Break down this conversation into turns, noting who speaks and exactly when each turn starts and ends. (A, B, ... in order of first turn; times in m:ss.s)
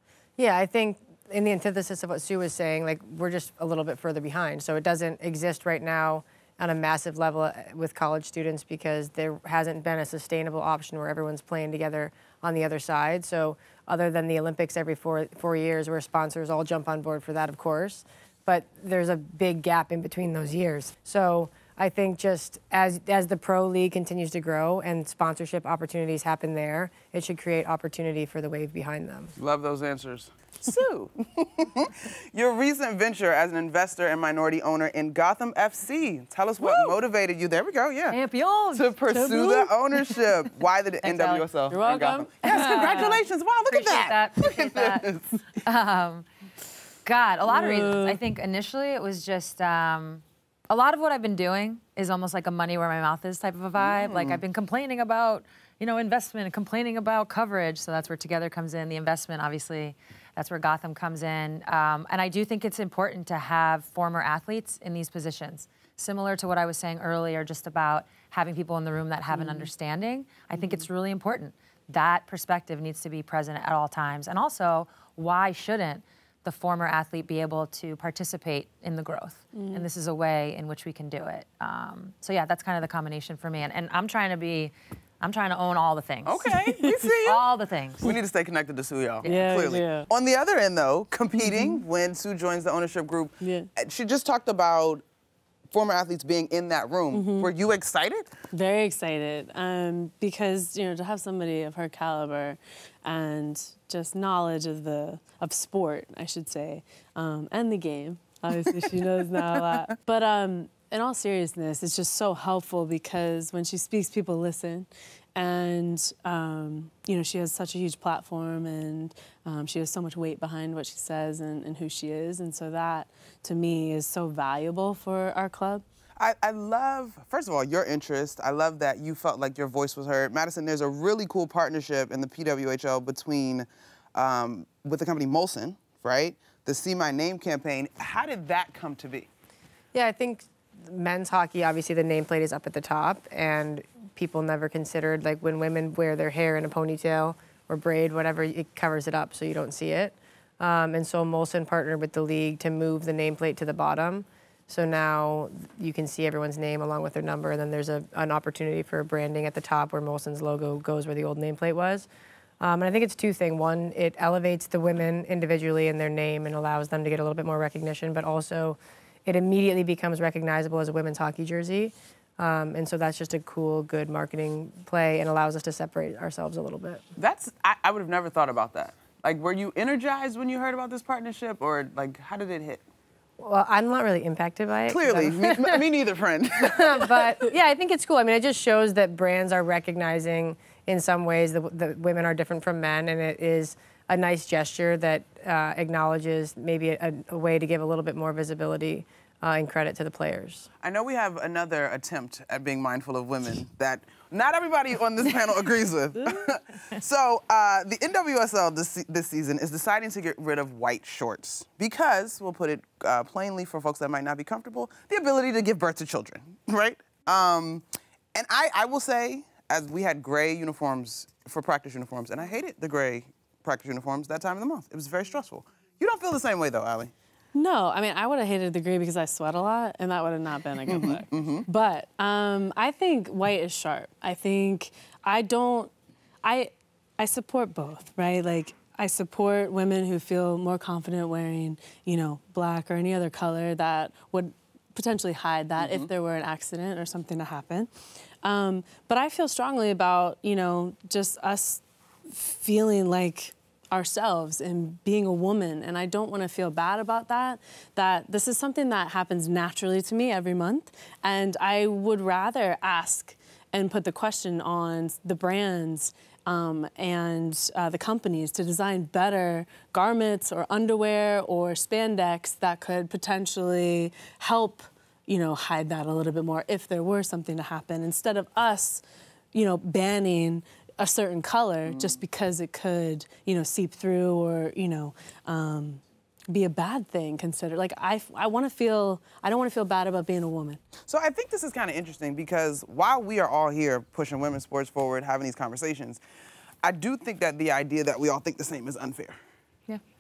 0:00.4-0:29.3 A
0:29.4-0:38.2 B
0:38.1-0:38.9 C
0:38.7-0:45.3 B
0:39.1-0:39.7 D
0:41.0-0:43.2 C
0:41.7-0:43.1 D
0:43.7-0:46.2 C
0:47.0-1:26.6 C
0:47.5-0:48.2 D
0:53.8-0:54.4 B
1:09.3-1:09.7 D
1:19.5-1:19.8 D
1:26.2-1:27.4 B
1:27.2-1:28.1 C
1:28.0-1:35.0 B
1:29.2-1:30.1 D
1:31.4-1:31.8 D
1:33.4-1:33.7 D
1:35.7-1:38.3 B
1:37.1-1:37.5 D
1:38.5-2:05.8 D
2:06.2-2:19.3 B
2:19.9-2:42.1 A
2:42.6-2:57.0 A
2:57.2-3:02.8 B
3:03.4-3:05.8 A
3:04.8-3:07.4 B
3:06.7-3:20.7 A
3:20.8-3:47.1 B
3:47.5-3:55.9 D
3:50.9-3:51.6 B
3:56.4-4:07.9 D
4:05.8-4:06.1 B
4:08.4-4:50.8 D
4:41.9-4:42.2 B
4:51.1-4:56.2 B
4:56.8-4:59.4 B